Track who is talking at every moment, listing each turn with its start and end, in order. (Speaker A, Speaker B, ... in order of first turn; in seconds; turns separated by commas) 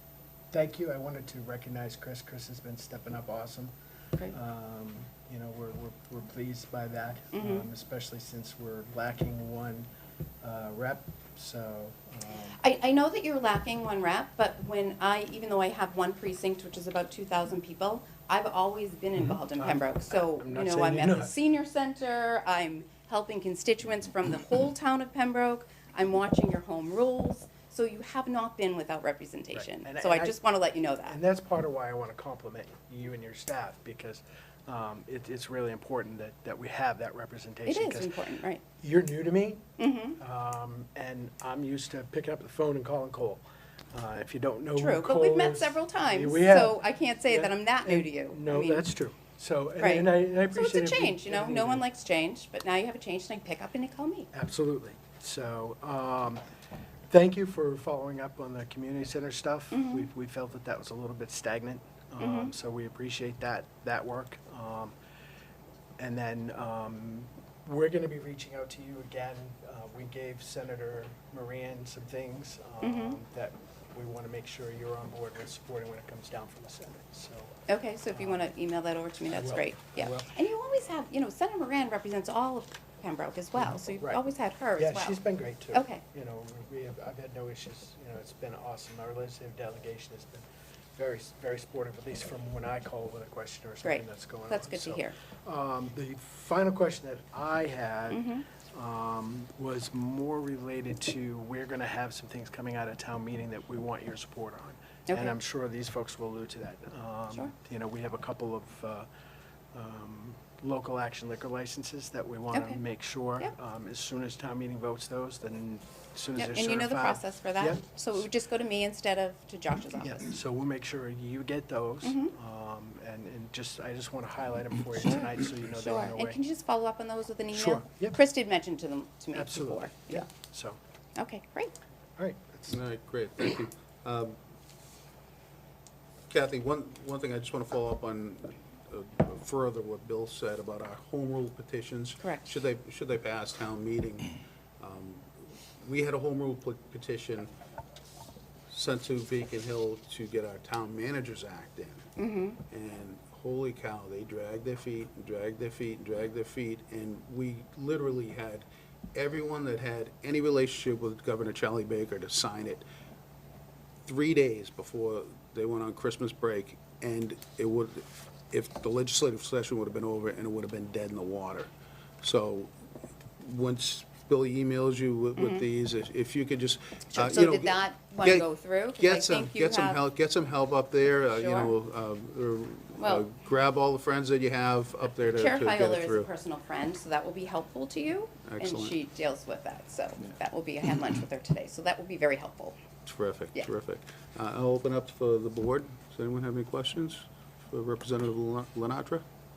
Speaker A: 0.5-3.7, Speaker A: 4.3-9.9, Speaker B: 7.3-7.7, Speaker A: 10.4-12.6, Speaker B: 12.6-31.2, Speaker A: 19.1-21.4, Speaker A: 29.5-30.4, Speaker A: 31.1-38.1, Speaker B: 37.6-38.6, Speaker A: 38.8-39.6, Speaker B: 39.8-40.2, Speaker A: 40.2-43.4, Speaker A: 43.9-51.8, Speaker B: 44.7-48.9, Speaker B: 49.8-54.3, Speaker A: 54.3-56.4, Speaker A: 57.1-64.9, Speaker B: 59.7-60.1, Speaker B: 62.2-62.5, Speaker A: 66.0-78.5, Speaker B: 72.8-73.2, Speaker B: 77.7-85.2, Speaker A: 79.3-80.4, Speaker A: 83.5-84.2, Speaker A: 84.8-109.1, Speaker B: 85.7-86.0, Speaker B: 93.8-95.1, Speaker B: 98.1-98.4, Speaker B: 105.1-105.4, Speaker A: 109.7-118.3, Speaker B: 112.5-112.8, Speaker B: 116.3-120.2, Speaker A: 120.0-126.4, Speaker B: 122.0-122.3, Speaker B: 125.0-130.2, Speaker A: 127.5-128.2, Speaker A: 129.3-130.8, Speaker B: 131.2-131.7, Speaker A: 132.2-132.8, Speaker C: 132.7-134.4, Speaker C: 136.3-147.5, Speaker B: 142.2-142.5, Speaker C: 148.7-152.1, Speaker B: 152.2-152.6, Speaker C: 152.7-162.8, Speaker C: 164.1-171.7, Speaker C: 172.2-172.7, Speaker C: 173.4-186.3, Speaker B: 175.4-175.6, Speaker B: 177.1-180.0, Speaker B: 181.3-181.7, Speaker B: 183.0-183.3, Speaker B: 185.2-192.8, Speaker C: 188.4-189.0, Speaker C: 193.0-199.2